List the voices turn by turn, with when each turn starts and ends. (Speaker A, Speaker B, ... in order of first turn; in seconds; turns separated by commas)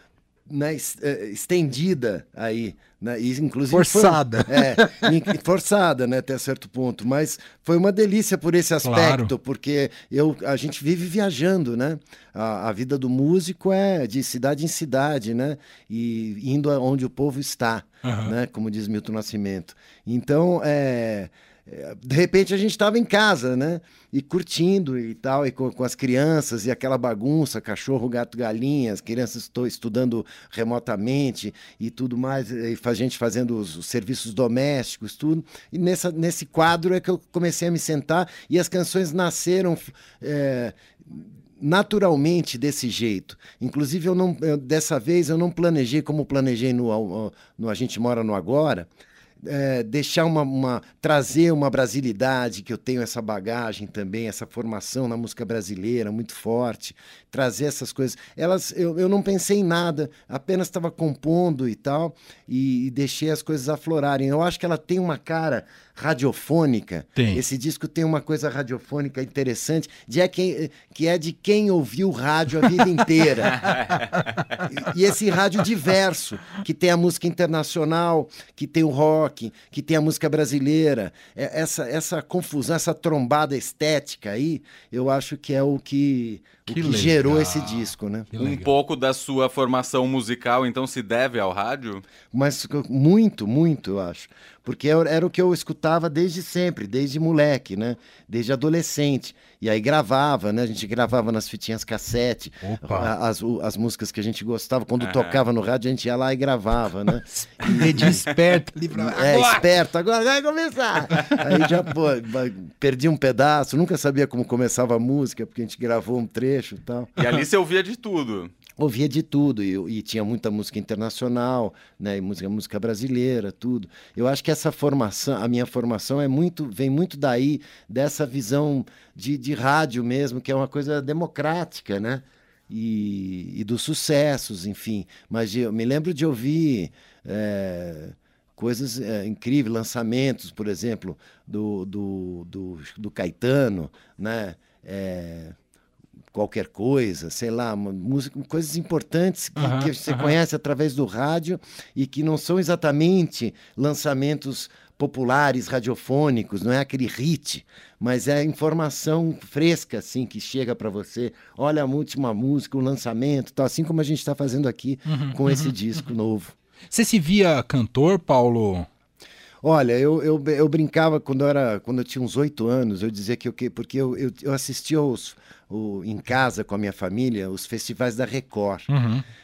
Speaker A: 0.5-48.9, Speaker B: 3.7-5.1, Speaker B: 8.8-9.3, Speaker B: 18.0-18.3, Speaker A: 49.4-73.7, Speaker B: 67.2-67.4, Speaker A: 74.7-88.3, Speaker B: 86.7-88.7, Speaker C: 88.4-92.0, Speaker A: 92.3-108.2, Speaker B: 102.6-103.1, Speaker C: 105.0-105.4, Speaker B: 107.4-109.7, Speaker A: 108.9-117.1, Speaker C: 117.2-118.5, Speaker A: 118.8-145.6, Speaker A: 146.3-166.5, Speaker B: 149.6-150.3, Speaker B: 165.1-165.7, Speaker B: 166.9-168.9, Speaker A: 169.6-178.9, Speaker B: 178.9-179.2